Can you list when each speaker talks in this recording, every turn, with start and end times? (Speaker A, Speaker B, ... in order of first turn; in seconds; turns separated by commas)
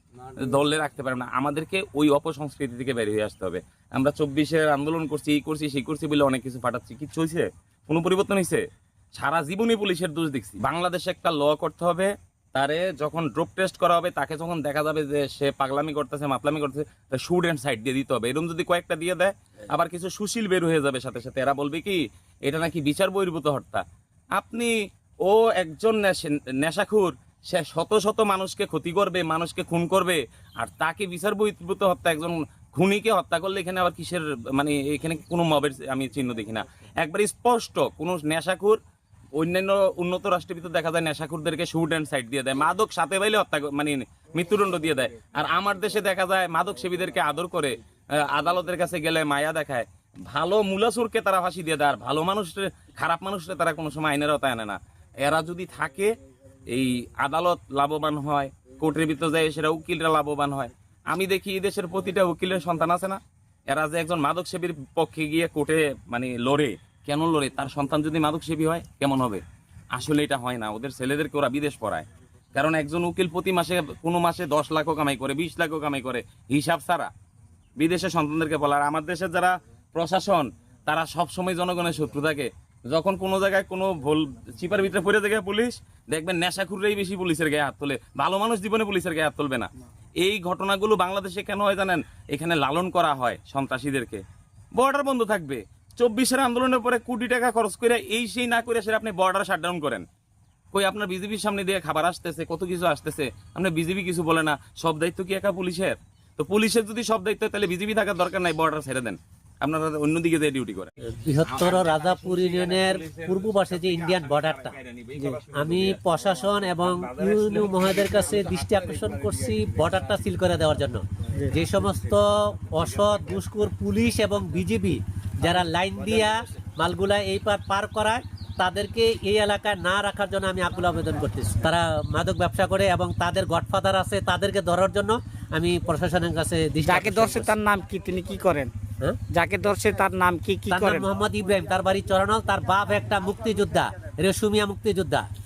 Speaker A: 0.3-23.8, Speaker A: 24.4-24.7, Speaker A: 25.2-38.8, Speaker A: 39.4-56.1, Speaker A: 56.7-77.1, Speaker A: 77.8-89.7, Speaker A: 90.2-94.2, Speaker A: 94.7-100.0, Speaker A: 100.7-110.9, Speaker B: 111.1-114.7, Speaker A: 111.5-116.0, Speaker C: 115.2-115.4, Speaker B: 115.5-137.5, Speaker A: 116.7-117.5, Speaker C: 136.8-138.7, Speaker C: 139.3-141.0, Speaker B: 140.7-145.2